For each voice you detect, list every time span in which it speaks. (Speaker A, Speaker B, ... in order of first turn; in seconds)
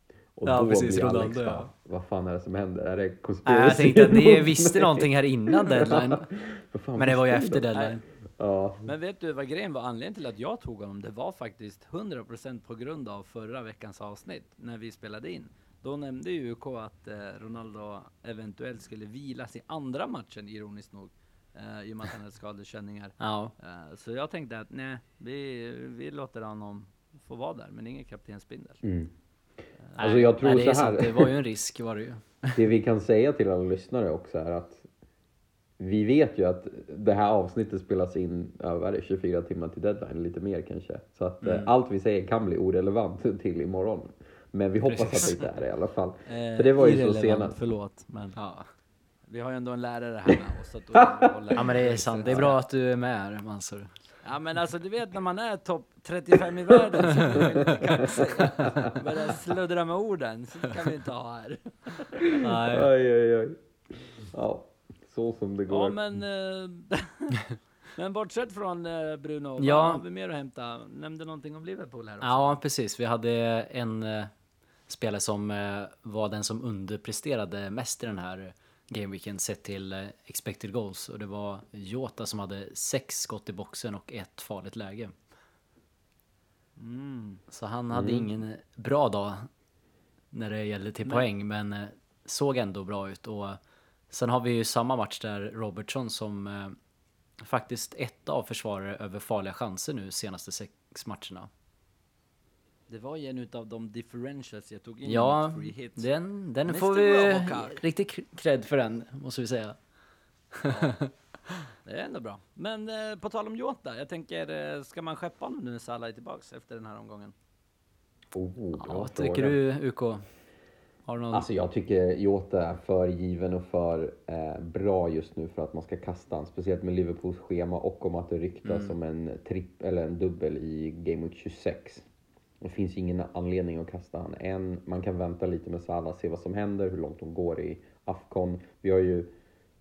Speaker A: 0.3-7.7, 8.4-8.9, 28.8-29.1, 30.0-31.3, 32.5-34.9, 35.8-47.6, 51.0-51.6, 52.3-52.5, 57.3-58.1, 62.2-66.0, 87.9-88.3, 118.3-119.6, 121.3-132.1, 132.6-139.3
Speaker B: 0.5-1.7, 3.5-6.3, 7.0-8.0, 23.2-23.5, 30.0-32.6, 41.4-41.7, 44.9-45.4, 48.4-48.7, 51.6-53.9, 62.4-62.9, 69.6-70.0, 72.2-74.3, 74.9-85.1, 87.5-89.5, 90.3-93.6, 94.1-96.8, 97.4-101.5, 105.1-109.8, 110.5-111.5, 118.8-120.3, 121.1-121.5, 128.7-128.9
Speaker C: 7.7-8.0, 8.8-28.8, 46.3-48.4, 49.3-52.6, 54.2-62.4, 65.7-72.6, 86.8-87.4, 102.9-106.1, 106.7-107.8, 110.7-111.0, 111.8-117.3